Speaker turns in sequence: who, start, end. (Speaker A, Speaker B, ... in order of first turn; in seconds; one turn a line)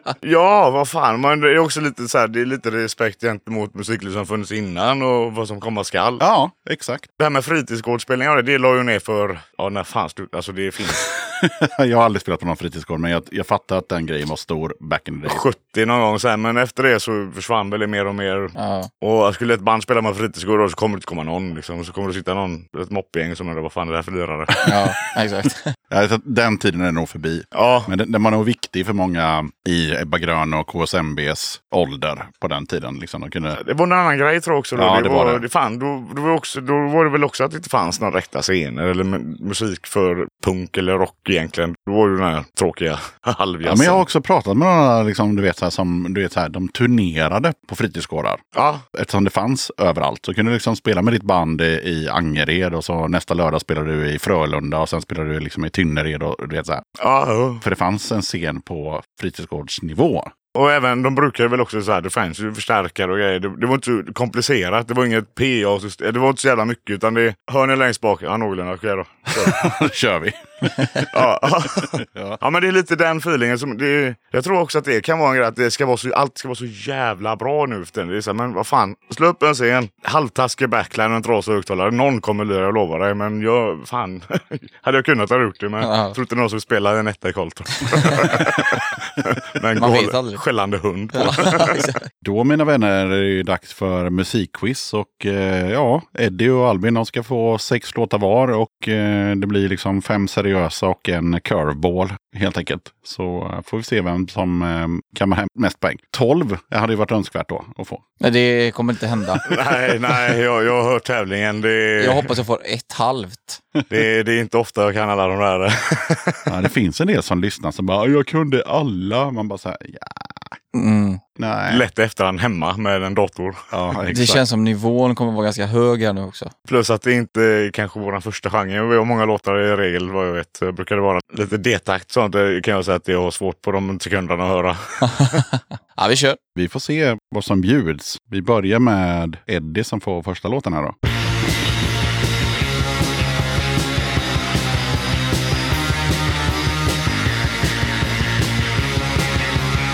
Speaker A: 0.2-6.2
Speaker B: 6.2-7.0
Speaker A: 7.2-11.0
Speaker B: 11.1-15.4
Speaker A: 15.3-24.8
Speaker C: 18.6-18.9
Speaker C: 24.6-25.7
Speaker B: 25.9-33.6
Speaker A: 27.5-27.9
Speaker A: 33.6-44.0
Speaker B: 34.8-35.4
Speaker B: 43.6-48.4
Speaker A: 48.5-48.8
Speaker B: 48.9-56.8
Speaker A: 57.0-57.6
Speaker B: 57.6-60.3
Speaker A: 60.5-69.6
Speaker B: 69.3-71.1
Speaker A: 71.1-91.9
Speaker B: 72.0-72.4
Speaker C: 85.8-86.2
Speaker C: 88.0-88.3
Speaker C: 89.8-90.4
Speaker C: 91.1-92.0
Speaker B: 92.2-108.0
Speaker C: 108.2-109.5
Speaker A: 109.5-112.4
Speaker C: 112.0-113.6
Speaker A: 113.9-116.5
Speaker B: 116.5-120.6
Speaker C: 120.7-121.2
Speaker B: 121.4-121.8
Speaker A: 121.7-123.6
Speaker B: 123.7-124.4
Speaker C: 124.1-126.5
Speaker A: 126.7-135.4
Speaker C: 136.0-136.4
Speaker B: 136.6-140.9